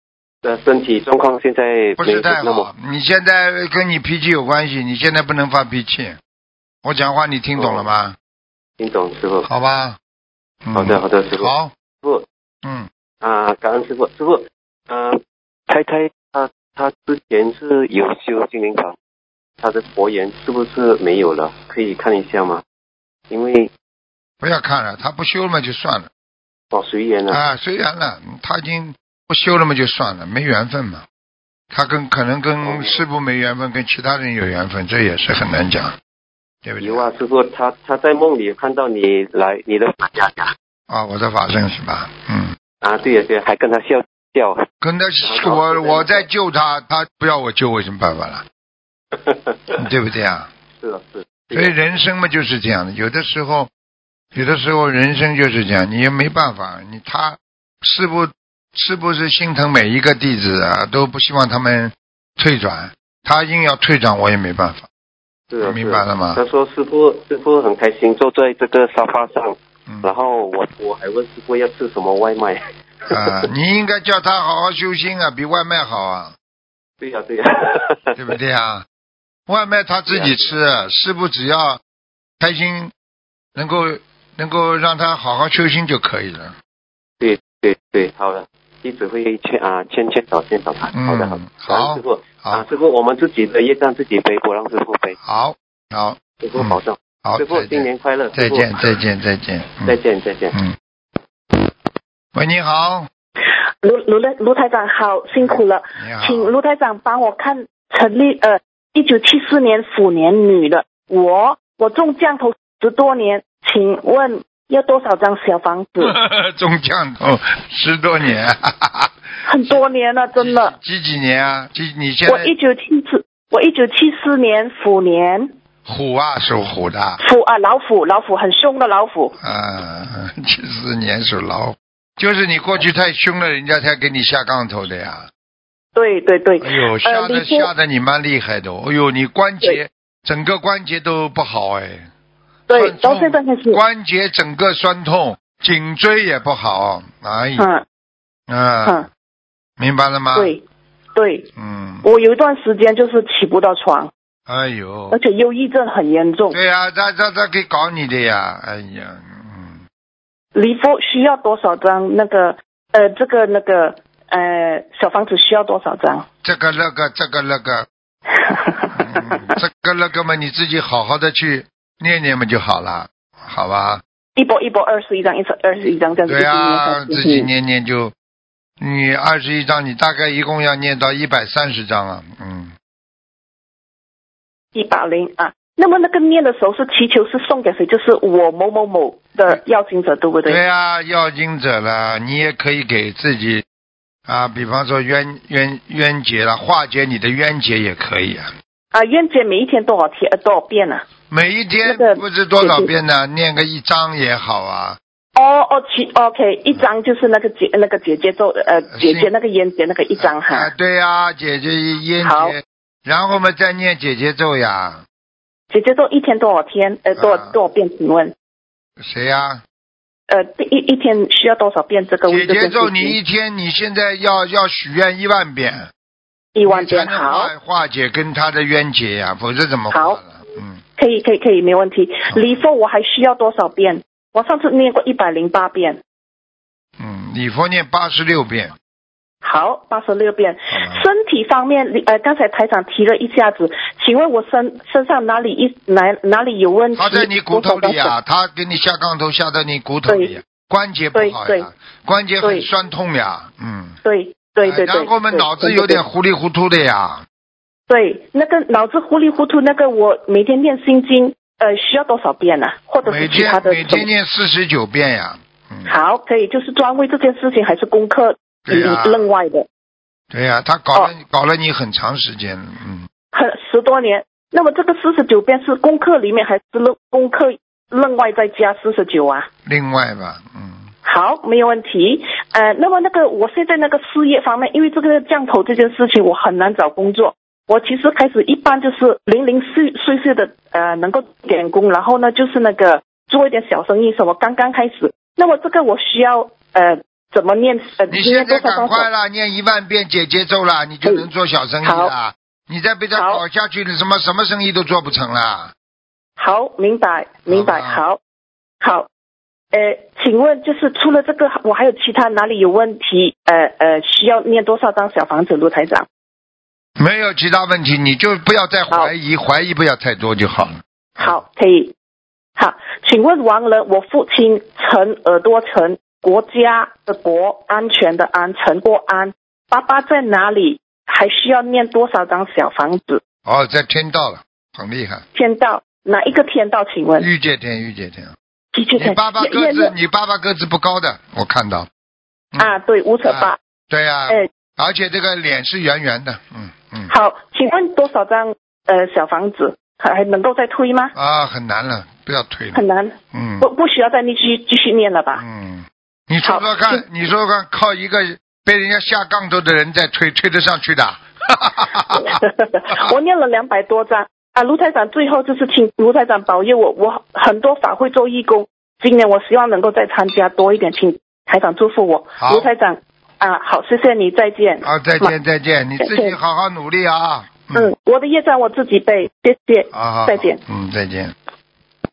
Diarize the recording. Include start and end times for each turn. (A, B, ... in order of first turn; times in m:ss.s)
0:00.4-0:02.7 A
0:02.0-0:06.2 B
0:06.8-0:08.2 B
0:07.6-0:07.9 A
0:08.8-0:09.5 A
0:09.4-0:10.0 B
0:10.6-0:11.7 B
0:10.7-0:12.2 A
0:12.6-0:12.9 B
0:13.2-0:19.0 A
0:19.6-0:22.6 A
0:23.3-0:23.7 A
0:24.4-0:26.1 B
0:26.7-0:27.4 A
0:27.3-0:31.0 B
0:31.7-0:35.9 B
0:32.6-0:33.0 A
0:36.6-0:37.1 B
0:36.8-0:40.5 A
0:40.9-0:42.5 B
0:42.8-0:44.6 A
0:44.8-0:48.4 B
0:45.2-0:46.3 A
0:49.1-0:49.8 A
0:49.8-0:50.5 B
0:50.8-0:51.8 A
0:51.5-0:53.7 B
0:54.3-1:04.9 B
1:05.5-1:12.6 A
1:05.6-1:06.4 B
1:09.9-1:10.1 B
1:13.1-1:16.3 B
1:17.0-1:18.1 A
1:18.2-1:18.9 B
1:19.5-1:21.8 B
1:20.1-1:20.5 A
1:22.4-1:22.9 B
1:23.5-1:26.6 B
1:27.2-1:35.1 A
1:30.9-1:32.6 B
1:35.2-1:40.0 B
1:36.4-1:38.8 A
1:39.8-1:40.6 A
1:42.3-1:43.1 B
1:43.8-1:56.1 C
1:45.3-1:46.5 B
1:56.0-1:59.1 B
1:59.4-2:00.8 C
2:00.4-2:02.5 B
2:02.3-2:05.5 C
2:05.9-2:07.2 B
2:07.2-2:09.3 C
2:09.4-2:15.3 B
2:15.9-2:17.7 C
2:16.6-2:22.1 B
2:22.7-2:23.8 C
2:22.7-2:27.7 B
2:27.6-2:27.8 C
2:28.5-2:29.1 B
2:29.8-2:30.5 B
2:30.3-2:30.6 C
2:31.1-2:31.4 C
2:31.6-2:32.1 B
2:32.0-2:34.1 C
2:34.5-2:35.2 B
2:35.1-2:36.6 C
2:36.5-2:39.8 B
2:40.5-2:46.2 C
2:46.4-2:47.9 B
2:48.3-2:49.6 C
2:49.0-2:54.0 B
2:54.4-2:57.5 C
2:56.2-2:58.1 B
2:58.8-3:02.7 B
3:04.7-3:10.6 C
3:10.4-3:13.6 B
3:14.3-3:18.5 B
3:18.9-3:21.0 C
3:21.3-3:25.0 B
3:21.8-3:22.9 C
3:25.4-3:30.7 C
3:28.9-3:29.3 B
3:30.2-3:35.0 B
3:32.2-3:32.5 C
3:35.7-3:38.3 C
3:37.2-3:37.5 B
3:39.0-3:39.6 B
3:40.3-3:43.2 C
3:42.3-3:45.9 B
3:46.5-3:47.5 C
3:46.6-3:50.8 B
3:49.9-3:50.2 C
3:51.0-3:56.0 C
3:52.3-3:52.6 B
3:57.0-3:58.7 B
3:59.4-4:08.1 C
4:00.7-4:01.0 B
4:06.9-4:14.0 B
4:10.1-4:10.3 C
4:11.1-4:11.7 C
4:12.4-4:12.7 C
4:14.0-4:16.0 C
4:14.6-4:17.2 B
4:17.9-4:24.1 C
4:23.0-4:25.9 B
4:25.9-4:29.7 C
4:28.6-4:29.3 B
4:30.3-4:33.1 B
4:33.3-4:39.5 C
4:39.6-4:40.9 B
4:41.0-4:59.1 C
4:58.1-5:05.7 B
5:01.8-5:02.1 C
5:03.1-5:03.4 C
5:06.4-5:08.2 C
5:07.5-5:08.0 B
5:08.8-5:09.1 C
5:09.7-5:16.1 C
5:17.0-5:21.4 B
5:21.2-5:21.9 C
5:22.6-5:33.2 C
5:33.4-5:35.2 B
5:35.3-5:37.3 C
5:37.2-5:38.3 B
5:38.7-5:39.9 C
5:39.0-5:41.9 B
5:42.5-5:47.1 B
5:42.6-5:43.6 C
5:47.1-5:51.1 C
5:51.1-5:53.7 B
5:52.8-5:55.4 C
5:55.4-6:03.0 B
5:56.4-5:57.0 C
6:02.1-6:15.3 C
6:12.4-6:12.7 B
6:14.8-6:17.9 B
6:16.0-6:16.4 C
6:17.7-6:20.6 C
6:19.9-6:21.3 B